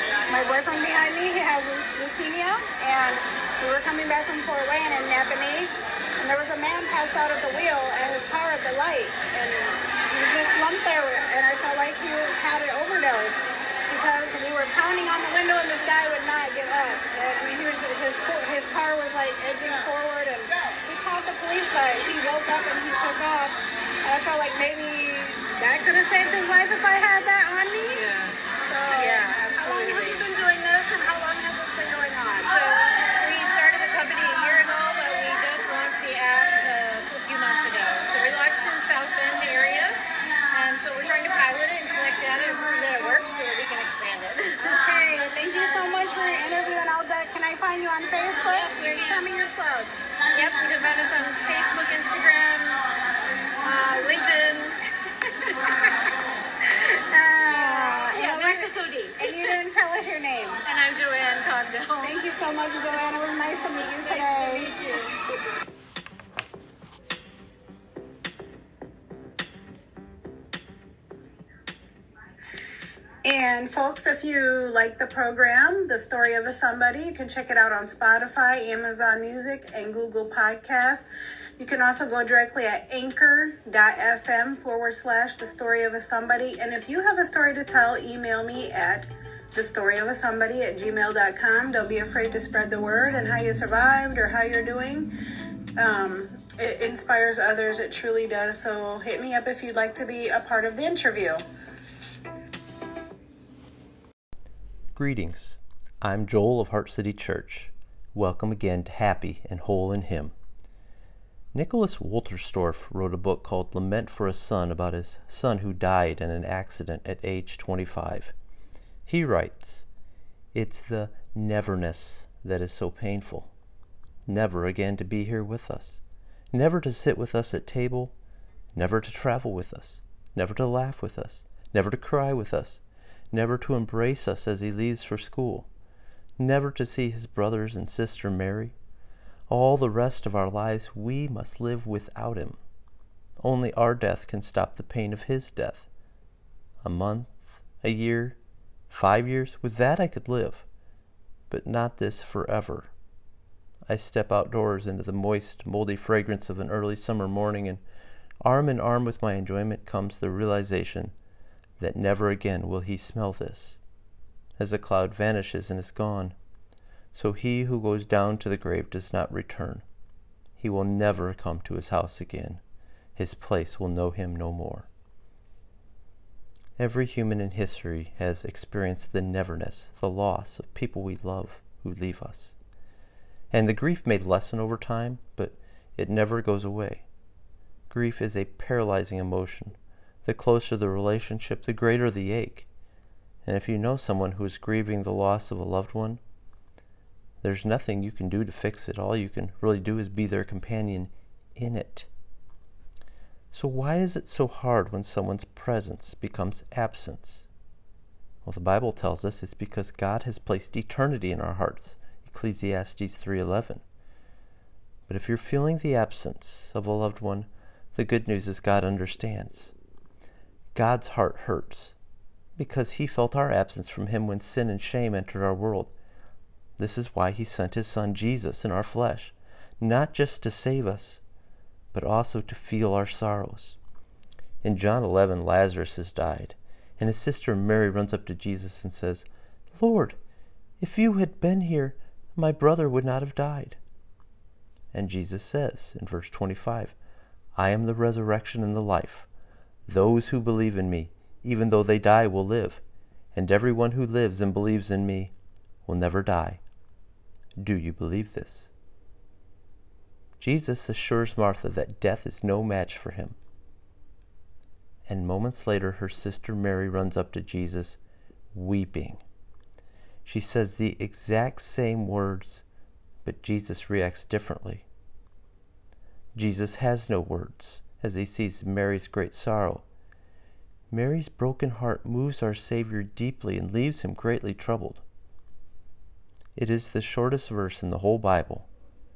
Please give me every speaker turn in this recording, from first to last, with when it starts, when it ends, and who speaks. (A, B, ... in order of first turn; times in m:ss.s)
0:00.3-0:28.1 A
0:27.9-0:28.3 B
0:28.6-0:32.7 A
0:28.9-0:30.3 B
0:32.4-0:40.0 B
0:40.5-0:44.8 B
0:44.7-0:50.2 A
0:48.4-0:49.2 B
0:50.3-0:52.8 B
0:53.6-0:54.8 B
0:57.1-1:00.6 A
0:58.1-0:59.5 B
1:00.6-1:02.2 B
1:02.0-1:04.8 A
1:04.0-1:05.1 B
1:13.2-1:21.1 A
1:21.6-1:35.1 A
1:35.8-1:41.4 A
1:44.9-1:50.3 C
1:51.5-1:58.3 C
1:59.1-1:59.8 C
2:00.5-2:03.5 C
2:04.3-2:06.0 C
2:06.5-2:08.1 C
2:08.7-2:12.8 C
2:13.3-2:15.7 C
2:16.4-2:18.7 C
2:19.5-2:22.6 C
2:23.4-2:25.9 C
2:26.8-2:28.4 C
2:28.9-2:30.6 C
2:31.5-2:32.9 C
2:33.9-2:37.8 C
2:38.4-2:41.1 C
2:41.8-2:43.8 C
2:44.6-2:46.4 C
2:47.1-2:49.8 C
2:50.6-2:52.6 C
2:53.2-2:54.9 C
2:56.8-3:02.6 C
3:03.5-3:07.0 C
3:07.9-3:12.6 C
3:13.4-3:16.2 C
3:17.4-3:22.1 C
3:23.5-3:27.5 C
3:28.4-3:33.8 C
3:35.1-3:39.7 C
3:40.8-3:41.9 C
3:42.6-3:45.9 C
3:46.8-3:51.2 C
3:51.9-3:53.8 C
3:54.6-4:00.2 C
4:00.8-4:03.8 C
4:04.9-4:07.0 C
4:07.6-4:09.3 C
4:09.9-4:12.8 C
4:13.3-4:15.3 C
4:15.8-4:16.6 C
4:17.6-4:18.7 C
4:20.4-4:23.4 C
4:25.1-4:28.0 C
4:28.5-4:29.2 C
4:30.2-4:32.6 C
4:33.2-4:34.8 C
4:36.4-4:39.8 C
4:40.9-4:45.0 C
4:46.6-4:48.6 C